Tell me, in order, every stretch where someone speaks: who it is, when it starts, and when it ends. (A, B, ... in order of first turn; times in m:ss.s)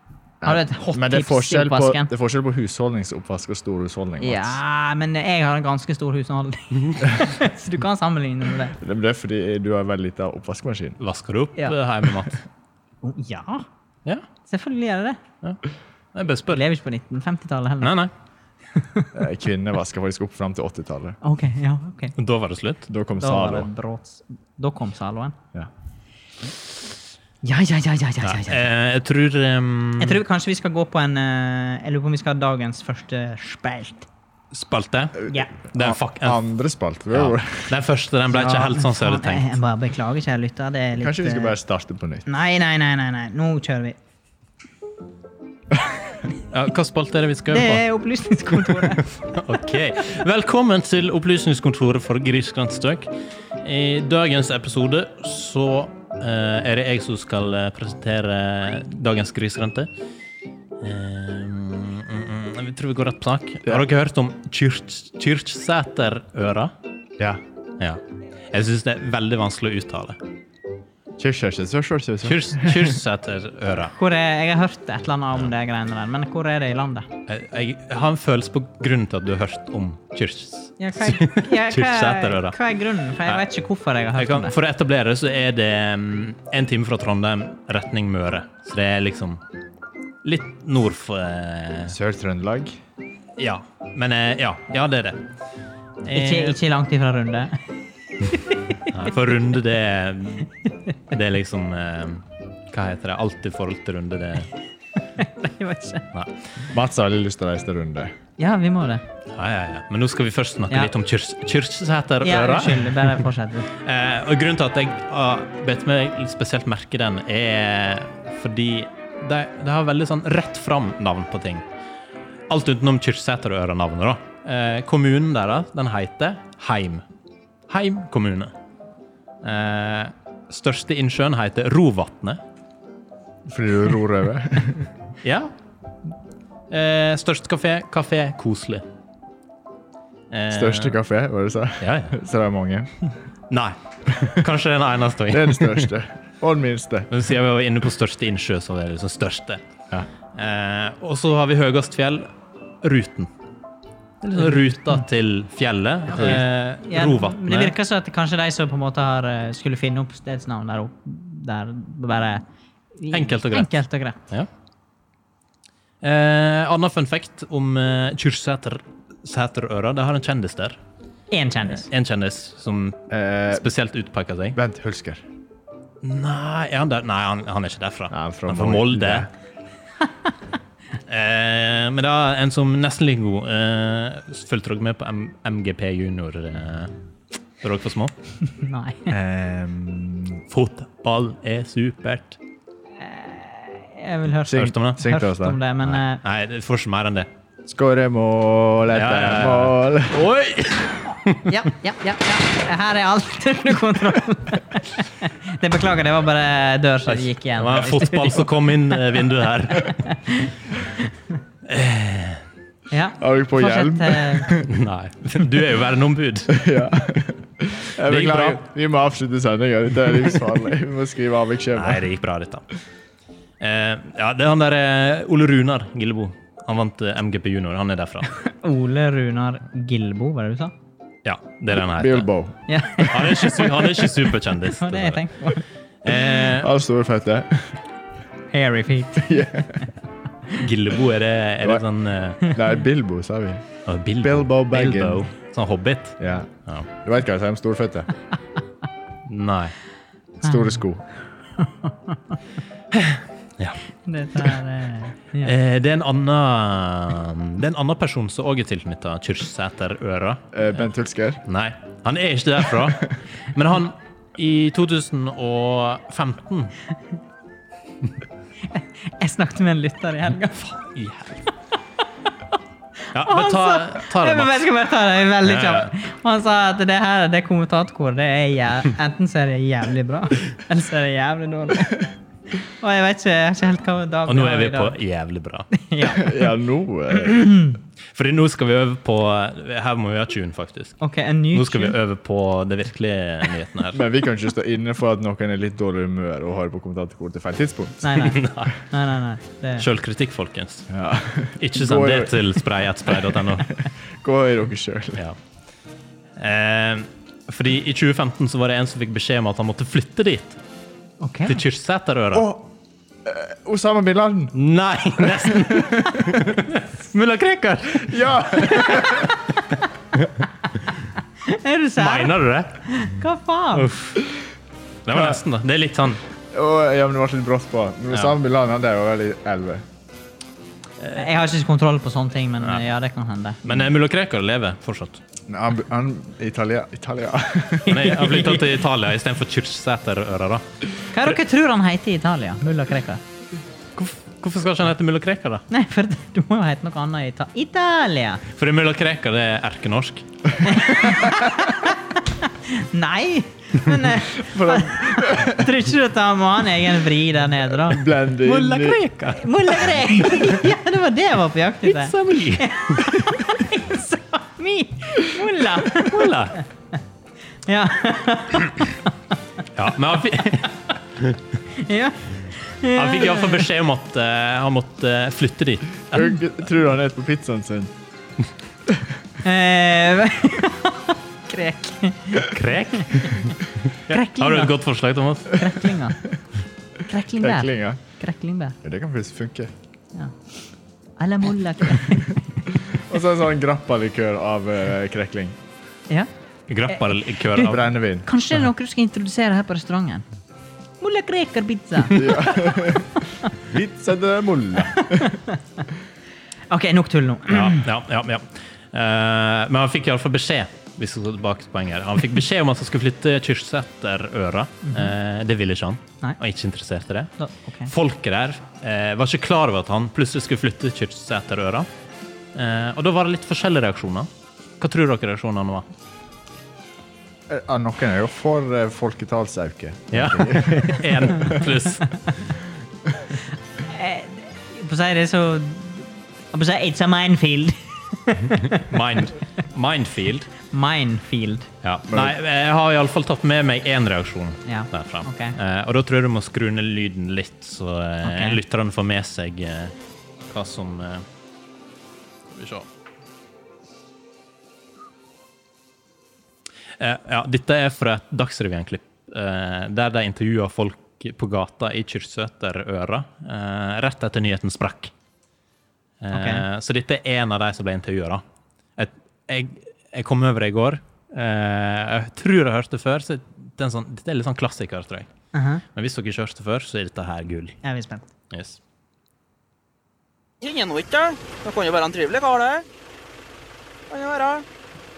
0:00.4-0:04.6 A
0:00.4-0:02.1 B
0:04.2-0:08.8 B
0:08.8-0:11.0 A
0:11.0-0:12.4 C
0:13.0-0:13.7 B
0:14.5-0:15.2 B
0:16.1-0:16.6 C
0:16.5-0:18.0 B
0:17.8-0:18.1 C
0:18.8-0:19.1 B
0:19.1-0:21.2 A
0:21.2-0:22.2 B
0:22.2-0:22.9 C
0:22.9-0:23.7 A
0:23.2-0:25.4 B
0:27.4-0:28.7 B
0:28.2-0:30.2 C
0:30.0-0:34.1 B
0:34.5-0:36.4 C
0:35.7-0:37.7 A
0:37.1-0:39.5 C
0:38.3-0:41.6 B
0:41.0-0:42.3 A
0:42.3-0:44.0 B
0:46.5-0:47.8 C
0:47.5-0:49.1 B
0:48.7-0:59.9 C
1:00.8-1:06.7 C
1:07.8-1:10.2 C
1:11.2-1:13.0 A
1:12.2-1:13.9 C
1:14.0-1:17.1 B
1:17.3-1:22.6 C
1:20.8-1:24.5 B
1:24.2-1:29.4 C
1:30.2-1:32.0 C
1:31.9-1:32.8 A
1:33.4-1:35.2 C
1:36.1-1:36.6 C
1:36.1-1:37.6 B
1:38.3-1:38.9 B
1:38.9-1:40.5 C
1:41.1-1:44.5 C
1:45.2-1:46.0 B
1:46.7-1:48.1 A
1:48.4-1:49.0 B
1:49.3-2:01.6 C
1:52.2-1:53.7 B
2:02.5-2:07.0 C
2:07.7-2:08.5 C
2:09.4-2:12.4 C
2:13.5-2:14.9 A
2:15.2-2:15.5 C
2:16.7-2:18.9 C
2:20.3-2:21.0 C
2:20.5-2:22.9 A
2:21.8-2:22.2 C
2:23.5-2:25.9 C
2:25.3-2:27.1 A
2:27.1-2:29.6 C
2:30.3-2:32.3 C
2:32.8-2:33.3 C
2:34.2-2:37.8 C
2:36.2-2:36.4 A
2:36.2-2:42.4 B
2:43.0-2:44.2 B
2:43.1-2:43.7 C
2:46.0-2:50.8 C
2:51.3-2:51.9 B
2:51.7-2:54.6 C
2:53.1-2:53.7 A
2:54.6-2:55.2 A
2:56.0-2:59.3 C
2:58.1-2:59.3 A
3:01.1-3:06.9 C
3:07.6-3:08.1 C
3:08.5-3:09.1 B
3:09.1-3:10.4 A
3:10.5-3:12.4 C
3:13.0-3:16.2 B
3:14.5-3:15.6 A
3:14.5-3:15.0 C
3:15.8-3:17.3 C
3:17.7-3:20.2 A
3:18.9-3:21.5 C
3:21.5-3:29.1 B
3:27.1-3:30.1 C
3:29.8-3:31.1 B
3:31.7-3:32.4 C
3:32.9-3:34.6 B
3:33.2-3:34.7 A
3:34.6-3:36.6 C
3:36.5-3:42.0 A
3:38.0-3:38.6 C
3:41.8-3:42.7 C
3:43.6-3:48.3 C
3:48.4-3:50.7 B
3:51.2-3:52.3 C
3:52.0-3:53.6 A
3:52.7-3:53.7 B
3:53.0-3:55.2 C
3:54.8-3:55.6 B
3:56.0-3:56.7 C
3:56.1-3:57.8 A
3:58.5-3:59.5 B
3:59.2-3:59.8 A
4:00.5-4:02.6 C
4:02.4-4:03.6 A
4:03.9-4:06.9 C
4:04.2-4:05.2 A
4:06.2-4:06.5 A
4:07.0-4:08.1 A
4:09.3-4:09.8 C
4:10.4-4:11.0 A
4:11.6-4:12.2 B
4:12.9-4:13.8 C
4:14.1-4:15.5 B
4:15.4-4:20.5 C
4:20.5-4:21.4 A
4:21.5-4:26.8 C
4:28.7-4:30.7 B
4:30.8-4:31.4 C
4:33.1-4:34.5 C
4:33.2-4:45.0 B
4:35.4-4:35.9 C
4:44.3-4:45.7 C
4:45.7-4:46.5 B
4:46.1-4:47.5 A
4:47.1-4:47.8 B
4:48.1-4:51.0 C
4:51.0-4:52.0 B
4:51.5-4:54.0 C
4:53.9-4:58.3 A
4:58.0-4:59.9 B
4:58.2-4:58.7 C
4:59.8-5:00.9 C
5:00.9-5:02.5 A
5:01.6-5:03.8 C
5:03.3-5:05.2 A
5:06.4-5:10.6 C
5:11.2-5:11.6 B
5:11.5-5:12.5 C
5:12.3-5:12.7 A
5:13.2-5:14.6 A
5:14.6-5:19.1 C
5:15.2-5:16.6 A
5:18.0-5:19.3 A
5:18.9-5:19.6 B
5:21.4-5:23.9 B
5:22.0-5:22.8 C
5:23.7-5:24.3 C
5:25.1-5:26.2 C
5:26.5-5:29.8 A
5:31.1-5:33.8 B
5:33.6-5:35.2 C
5:35.5-5:38.1 A
5:37.9-5:40.6 C
5:37.9-5:38.8 B
5:41.1-5:43.2 B
5:44.0-5:45.7 C
5:45.7-5:48.4 B
5:48.6-5:50.2 C
5:50.6-5:58.0 B
5:54.4-5:55.7 A
5:57.8-5:59.0 A
5:58.4-6:00.6 C
5:59.4-6:06.2 B
6:01.8-6:03.2 C
6:05.9-6:06.6 C
6:07.7-6:09.1 B
6:09.8-6:11.4 C
6:11.7-6:13.7 B
6:13.0-6:16.4 C
6:16.1-6:17.9 A
6:19.4-6:23.5 B
6:22.4-6:25.8 C
6:24.1-6:24.8 B
6:25.5-6:26.2 B
6:27.1-6:28.8 B
6:27.4-6:28.0 A
6:28.8-6:29.7 A
6:31.2-6:32.6 B
6:32.8-6:35.6 A
6:36.7-6:37.9 C
6:36.9-6:40.2 B
6:37.6-6:38.3 A
6:41.0-6:43.5 B
6:42.1-6:45.4 A
6:44.9-6:45.6 B
6:46.7-6:47.9 B
6:47.5-6:57.4 C
6:54.8-6:55.1 B
6:57.4-6:57.9 B
6:57.9-7:01.9 C
7:02.6-7:04.3 C
7:04.8-7:05.9 C
7:07.5-7:11.6 A
7:10.1-7:12.2 C
7:13.8-7:18.9 B
7:18.7-7:20.5 C
7:20.7-7:21.7 B
7:21.8-7:29.9 C
7:22.1-7:22.4 A
7:24.7-7:25.6 B
7:28.2-7:28.6 B
7:30.5-7:31.2 C
7:32.5-7:32.9 C
7:37.0-7:45.1 C
7:46.2-7:48.4 C
7:46.3-7:46.6 B
7:49.0-7:55.3 C
7:55.5-7:55.8 B
7:55.9-7:57.8 C
7:57.8-7:58.3 B
7:58.5-7:58.8 C
8:00.6-8:02.8 D
8:04.1-8:04.6 D